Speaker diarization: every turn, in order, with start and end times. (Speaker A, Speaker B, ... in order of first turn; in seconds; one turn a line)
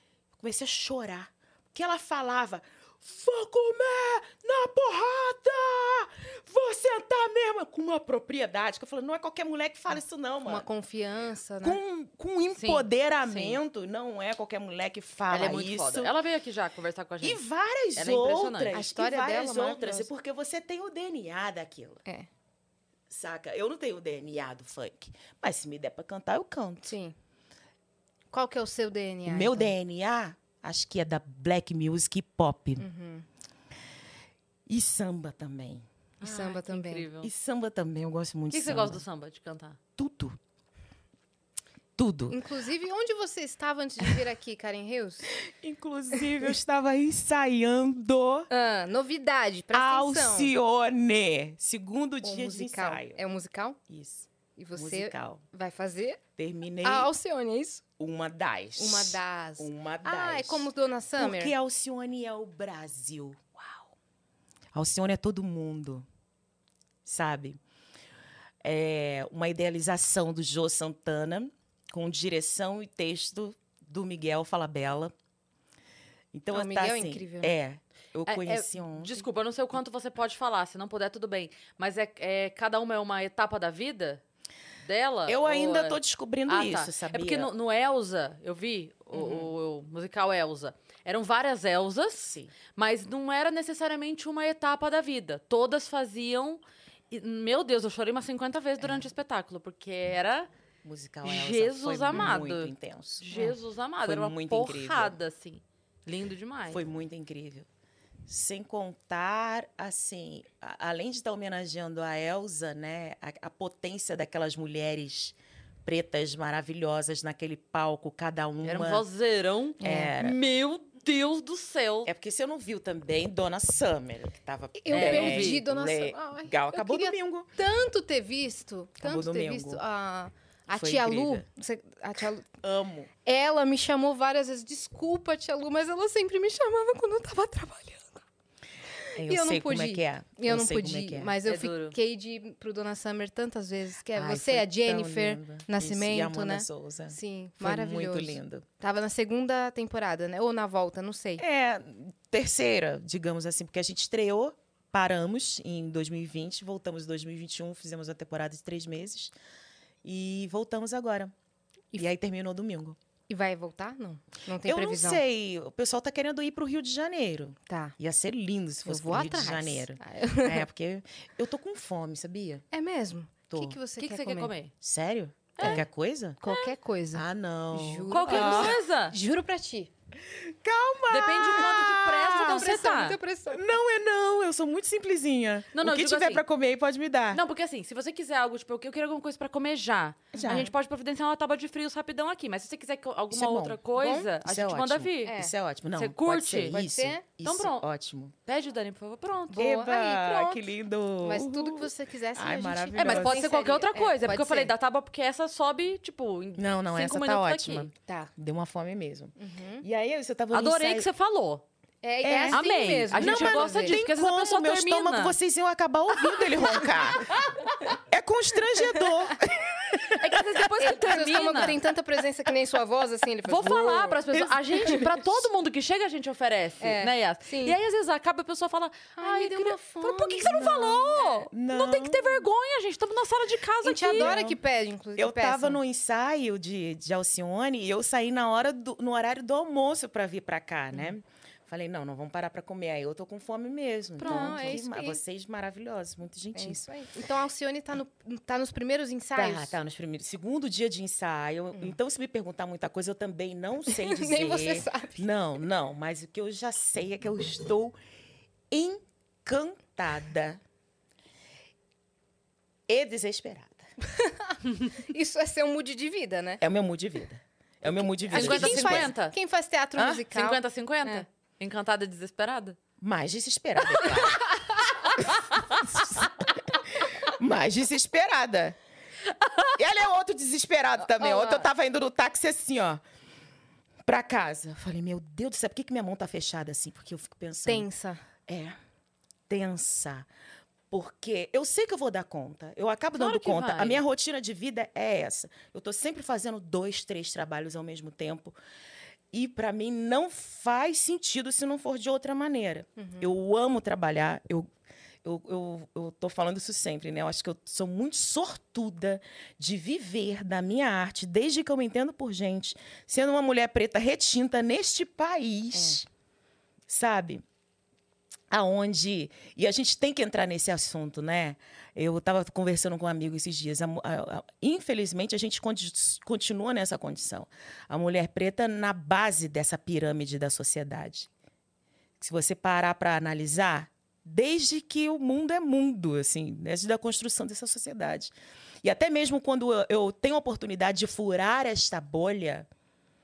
Speaker A: 0.3-10.7
Speaker B: 10.4-11.8
Speaker A: 11.6-16.1
Speaker C: 12.5-13.6
Speaker C: 15.3-17.4
Speaker A: 17.2-22.0
Speaker C: 17.9-18.7
Speaker B: 18.7-20.1
Speaker A: 23.1-26.9
Speaker B: 26.8-27.1
Speaker B: 28.3-29.7
Speaker A: 29.2-32.8
Speaker B: 32.8-33.2
Speaker A: 34.7-35.8
Speaker C: 36.2-37.3
Speaker B: 36.2-37.1
Speaker A: 37.2-39.0
Speaker C: 38.5-39.8
Speaker A: 40.0-40.4
Speaker A: 42.0-42.4
Speaker B: 42.3-45.3
Speaker A: 45.4-48.5
Speaker B: 48.5-50.5
Speaker A: 49.7-53.2
Speaker B: 52.2-53.8
Speaker A: 53.9-55.4
Speaker B: 54.6-56.2
Speaker A: 56.4-57.1
Speaker B: 56.8-57.8
Speaker A: 58.0-63.9
Speaker B: 58.8-61.5
Speaker A: 64.7-66.0
Speaker A: 67.0-67.6
Speaker A: 68.6-75.1
Speaker A: 76.3-79.2
Speaker B: 76.5-77.5
Speaker C: 78.3-84.2
Speaker C: 84.8-100.5
Speaker A: 85.3-87.5
Speaker A: 89.1-89.5
Speaker A: 92.2-92.5
Speaker A: 100.8-103.5
Speaker C: 101.2-106.8
Speaker A: 104.0-105.2
Speaker A: 106.7-107.7
Speaker A: 108.3-119.0
Speaker C: 118.6-122.1
Speaker B: 119.8-120.1
Speaker A: 119.8-120.4
Speaker A: 122.0-127.5
Speaker B: 124.8-132.5
Speaker C: 124.9-125.6
Speaker A: 129.0-129.8
Speaker A: 130.7-131.4
Speaker A: 132.6-133.1
Speaker B: 133.2-138.2
Speaker B: 139.0-151.4
Speaker A: 139.1-141.3
Speaker C: 141.4-141.9
Speaker A: 144.1-148.6
Speaker A: 151.4-159.3
Speaker A: 160.0-161.3
Speaker A: 161.9-163.0
Speaker B: 163.3-165.2
Speaker A: 164.6-172.6
Speaker B: 167.7-167.9
Speaker B: 168.8-170.6
Speaker B: 172.7-174.5
Speaker A: 173.5-173.8
Speaker C: 174.0-174.7
Speaker A: 174.8-176.4
Speaker C: 175.6-175.8
Speaker B: 175.6-175.8
Speaker B: 176.4-179.9
Speaker A: 177.1-178.8
Speaker C: 178.1-179.1
Speaker A: 180.2-182.7
Speaker C: 181.1-183.2
Speaker B: 181.4-183.7
Speaker A: 183.5-187.4
Speaker C: 185.7-186.4
Speaker C: 187.3-195.3
Speaker A: 190.3-190.7
Speaker B: 190.4-190.7
Speaker A: 193.3-198.3
Speaker B: 194.0-194.3
Speaker B: 195.2-195.5
Speaker C: 195.9-196.8
Speaker B: 196.7-197.2
Speaker C: 197.4-197.8
Speaker C: 198.4-199.7
Speaker B: 199.5-204.7
Speaker A: 199.6-203.4
Speaker C: 203.0-207.9
Speaker A: 206.6-211.1
Speaker B: 208.1-208.3
Speaker B: 209.4-209.8
Speaker C: 210.5-211.6
Speaker B: 212.0-214.0
Speaker A: 212.2-217.4
Speaker C: 212.5-215.3
Speaker A: 217.9-220.4
Speaker C: 220.0-221.8
Speaker B: 220.8-224.2
Speaker C: 223.4-234.3
Speaker A: 224.3-225.5
Speaker B: 226.8-227.8
Speaker B: 229.2-230.8
Speaker A: 230.5-232.4
Speaker B: 233.8-235.8
Speaker A: 234.1-234.6
Speaker A: 235.2-246.8
Speaker C: 244.2-244.8
Speaker B: 244.2-245.2
Speaker B: 246.5-249.8
Speaker A: 249.3-257.9
Speaker B: 253.9-255.2
Speaker A: 258.7-260.6
Speaker A: 262.9-263.9
Speaker B: 264.0-266.6
Speaker A: 266.6-269.1
Speaker B: 267.9-271.2
Speaker C: 268.3-269.3
Speaker A: 269.9-270.2
Speaker C: 270.3-272.8
Speaker A: 273.0-274.4
Speaker C: 273.9-274.4
Speaker C: 275.1-276.3
Speaker A: 275.2-278.8
Speaker C: 279.4-279.7
Speaker A: 279.7-283.0
Speaker B: 281.2-281.6
Speaker A: 284.0-287.9
Speaker B: 287.7-288.2
Speaker A: 288.5-288.8
Speaker A: 289.5-290.3
Speaker A: 290.9-298.6
Speaker C: 293.1-294.0
Speaker A: 299.3-304.7
Speaker B: 303.0-303.3
Speaker A: 305.2-316.1
Speaker A: 316.9-317.4
Speaker A: 318.5-331.3
Speaker A: 332.2-338.3
Speaker A: 338.8-342.7